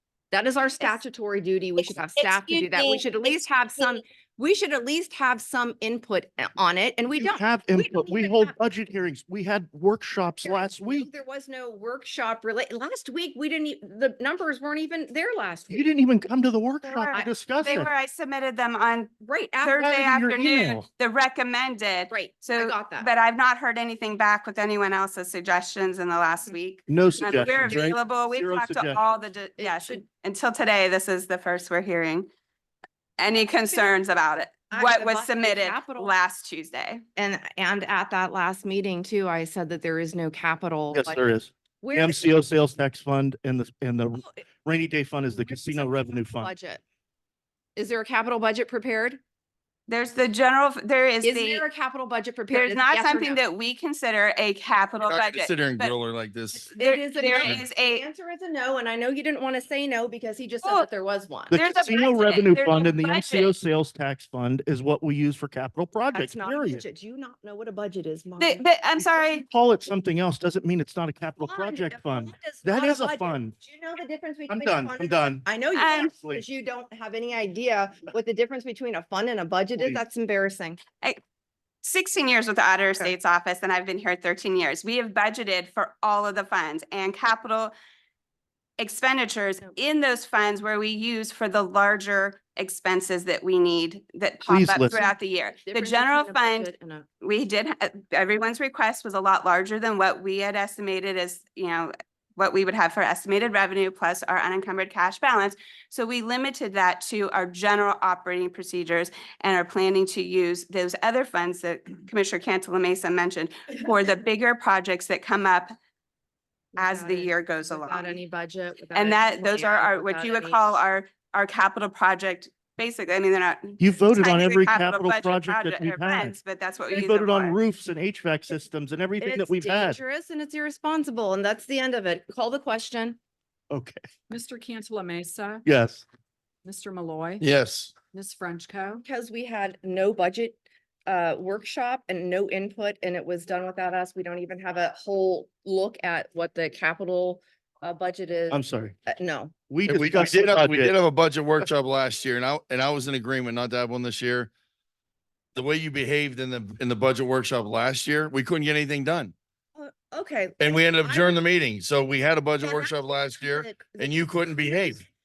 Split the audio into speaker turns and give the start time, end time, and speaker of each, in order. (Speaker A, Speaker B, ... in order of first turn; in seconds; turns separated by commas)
Speaker A: 0.3-8.6, Speaker B: 1.8-4.0, Speaker C: 7.2-11.1, Speaker A: 10.4-15.8, Speaker C: 15.7-17.9, Speaker B: 16.8-32.3, Speaker A: 19.2-19.8, Speaker C: 19.8-20.9, Speaker A: 22.1-23.1, Speaker C: 26.9-29.0, Speaker D: 27.7-27.9, Speaker A: 29.6-30.0, Speaker B: 33.2-37.0, Speaker A: 34.7-36.1, Speaker A: 37.2-41.2, Speaker C: 40.9-46.5, Speaker A: 41.8-42.3, Speaker A: 44.1-44.4, Speaker A: 45.3-46.8, Speaker A: 47.8-49.2, Speaker B: 49.9-51.6, Speaker A: 51.2-53.4, Speaker B: 52.5-55.9, Speaker D: 55.1-56.7, Speaker A: 56.5-61.5, Speaker B: 56.7-58.1, Speaker C: 61.5-66.8, Speaker B: 61.5-63.5, Speaker A: 66.1-68.7, Speaker B: 68.4-69.5, Speaker C: 69.0-73.6, Speaker A: 71.4-80.8, Speaker C: 74.5-75.5, Speaker B: 75.7-76.1, Speaker C: 76.1-76.4, Speaker B: 81.8-87.7, Speaker B: 88.8-96.7, Speaker C: 94.5-95.0, Speaker A: 95.6-97.1, Speaker B: 97.2-115.7, Speaker A: 116.8-120.8, Speaker B: 116.8-118.2, Speaker B: 119.0-127.6, Speaker C: 123.8-126.4, Speaker C: 126.9-130.0, Speaker A: 129.2-133.2, Speaker C: 133.7-134.0, Speaker E: 134.3-135.6, Speaker C: 135.7-136.0, Speaker E: 136.7-137.5, Speaker D: 137.4-137.9, Speaker E: 138.1-139.0, Speaker A: 139.1-149.6, Speaker C: 148.5-149.0, Speaker C: 149.7-150.9, Speaker D: 149.9-154.5, Speaker D: 155.6-159.3, Speaker A: 159.8-161.4, Speaker D: 160.6-165.0, Speaker A: 162.6-164.3